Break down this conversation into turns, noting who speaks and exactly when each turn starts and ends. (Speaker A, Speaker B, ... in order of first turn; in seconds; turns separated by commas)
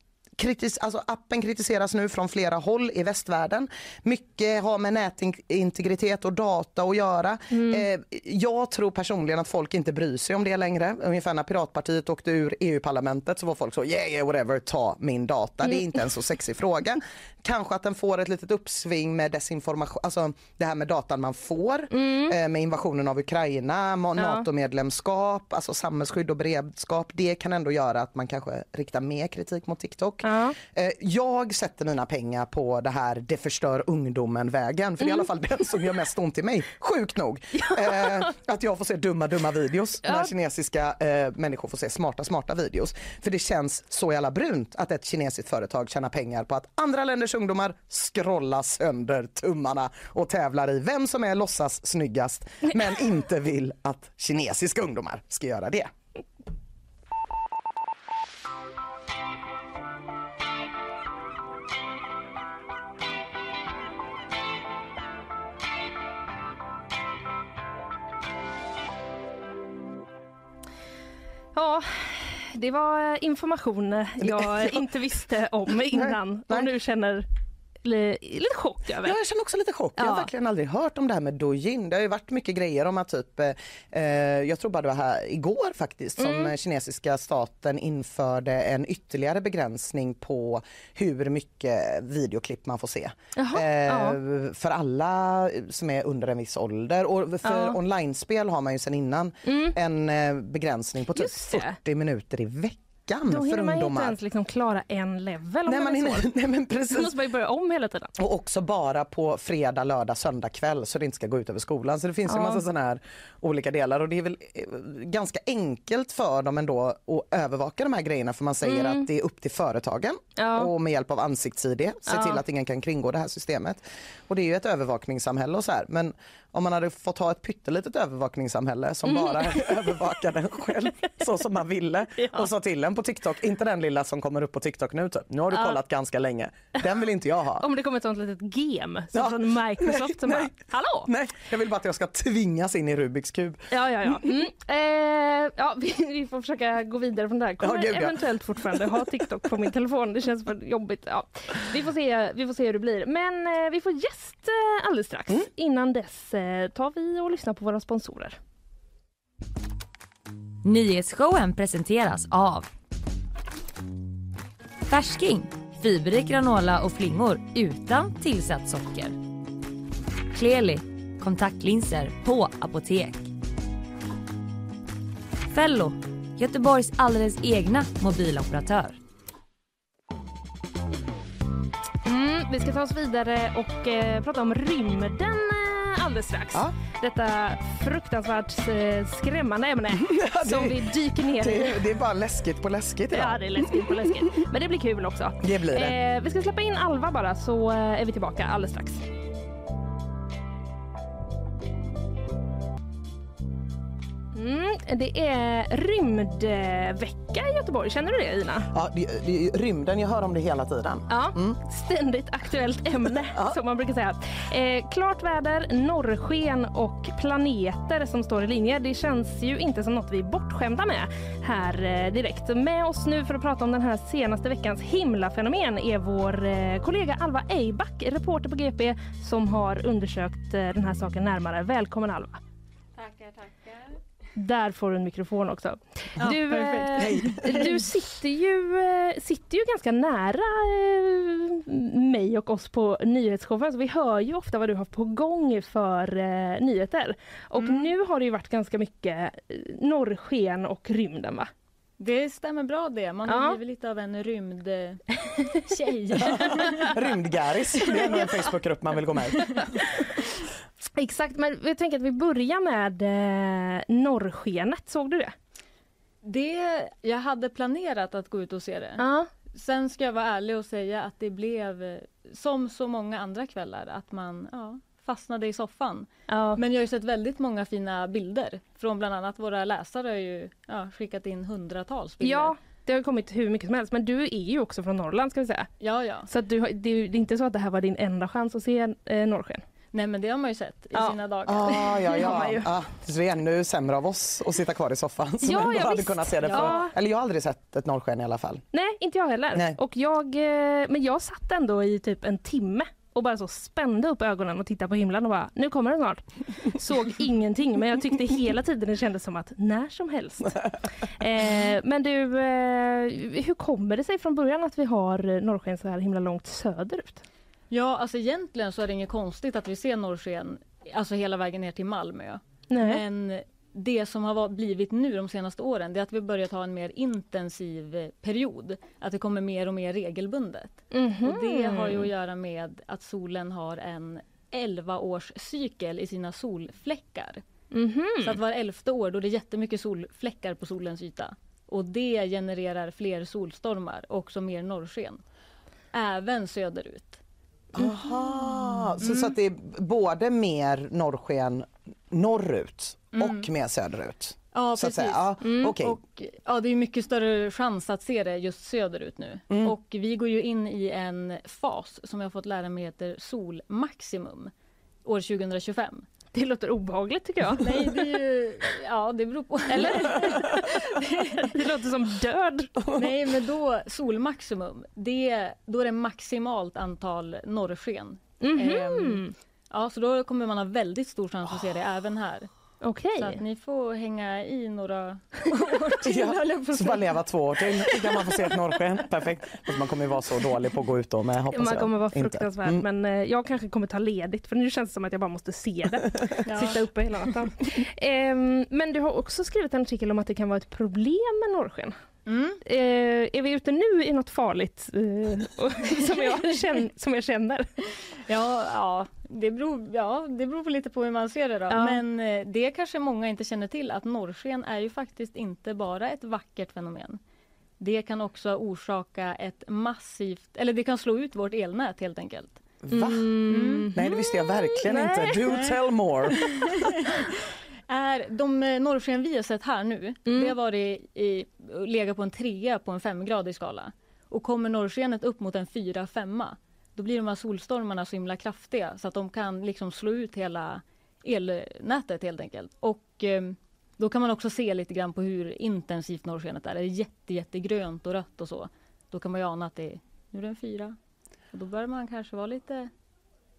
Speaker A: 0.4-55.9, Speaker B: 7.5-7.8, Speaker B: 21.9-22.4, Speaker B: 24.2-24.4, Speaker B: 30.2-30.6, Speaker B: 37.6-38.2, Speaker B: 40.0-40.3, Speaker B: 71.5-77.3, Speaker A: 74.2-74.8, Speaker A: 75.9-76.7, Speaker B: 77.8-79.2, Speaker A: 79.0-104.2, Speaker B: 80.0-80.3, Speaker B: 86.2-86.5, Speaker B: 93.3-94.2, Speaker B: 97.4-97.8, Speaker B: 99.5-99.8, Speaker B: 101.1-101.8, Speaker B: 103.3-106.3, Speaker A: 105.6-107.1, Speaker B: 106.9-108.1, Speaker A: 108.2-137.7, Speaker B: 112.3-112.6, Speaker B: 118.6-119.1, Speaker B: 120.4-120.7, Speaker B: 122.1-122.4, Speaker B: 129.1-129.7, Speaker B: 132.2-132.5, Speaker B: 135.5-135.8, Speaker B: 137.6-141.1, Speaker A: 139.1-144.3, Speaker B: 143.7-158.4, Speaker A: 147.6-149.1, Speaker C: 160.6-162.7, Speaker C: 164.9-169.2, Speaker C: 170.3-173.3, Speaker C: 175.5-179.0, Speaker B: 182.0-191.8, Speaker A: 190.0-194.2, Speaker B: 193.1-199.0, Speaker A: 195.4-196.0, Speaker B: 204.3-208.7, Speaker A: 208.7-211.6, Speaker B: 211.1-232.4, Speaker A: 213.3-213.6, Speaker D: 232.9-234.0, Speaker B: 234.3-251.5, Speaker D: 236.2-237.8, Speaker A: 237.0-237.7, Speaker D: 247.6-247.9, Speaker D: 252.0-255.0, Speaker B: 253.3-253.6, Speaker D: 255.7-257.0, Speaker A: 256.3-259.6, Speaker B: 256.3-256.6, Speaker D: 257.9-258.3, Speaker B: 259.6-260.0, Speaker B: 260.9-265.3, Speaker D: 266.2-282.6, Speaker B: 269.0-269.3, Speaker B: 276.3-276.6, Speaker B: 282.2-285.7, Speaker D: 285.8-286.3, Speaker B: 286.3-289.6, Speaker D: 289.9-292.4, Speaker B: 290.9-292.7, Speaker A: 291.4-298.6, Speaker B: 295.4-296.9, Speaker D: 296.4-296.8, Speaker B: 298.7-310.6, Speaker A: 299.5-299.8, Speaker B: 311.2-317.2, Speaker D: 317.7-337.4, Speaker B: 322.7-323.0, Speaker B: 330.9-332.1, Speaker B: 337.7-338.4, Speaker D: 338.2-345.2, Speaker D: 345.9-347.2, Speaker A: 347.7-356.0, Speaker D: 349.0-349.3, Speaker D: 353.1-353.5, Speaker D: 354.5-364.5, Speaker B: 355.4-355.8, Speaker A: 359.5-359.7, Speaker D: 365.0-366.1, Speaker B: 366.3-368.2, Speaker D: 367.6-371.6, Speaker B: 369.7-370.7, Speaker B: 371.3-372.8, Speaker D: 372.9-382.5, Speaker B: 378.4-379.3, Speaker B: 382.8-383.4, Speaker D: 383.1-385.9, Speaker B: 385.5-387.2, Speaker A: 386.0-392.8, Speaker B: 387.9-388.5, Speaker B: 391.5-402.0, Speaker D: 396.4-396.8, Speaker D: 402.2-402.6, Speaker B: 402.6-407.7, Speaker D: 408.3-417.2, Speaker B: 411.7-412.0, Speaker D: 417.8-422.6, Speaker A: 422.8-423.4, Speaker B: 422.9-425.6, Speaker D: 423.5-423.9, Speaker A: 423.9-426.7, Speaker D: 427.9-450.9, Speaker B: 430.2-430.6, Speaker D: 451.5-452.9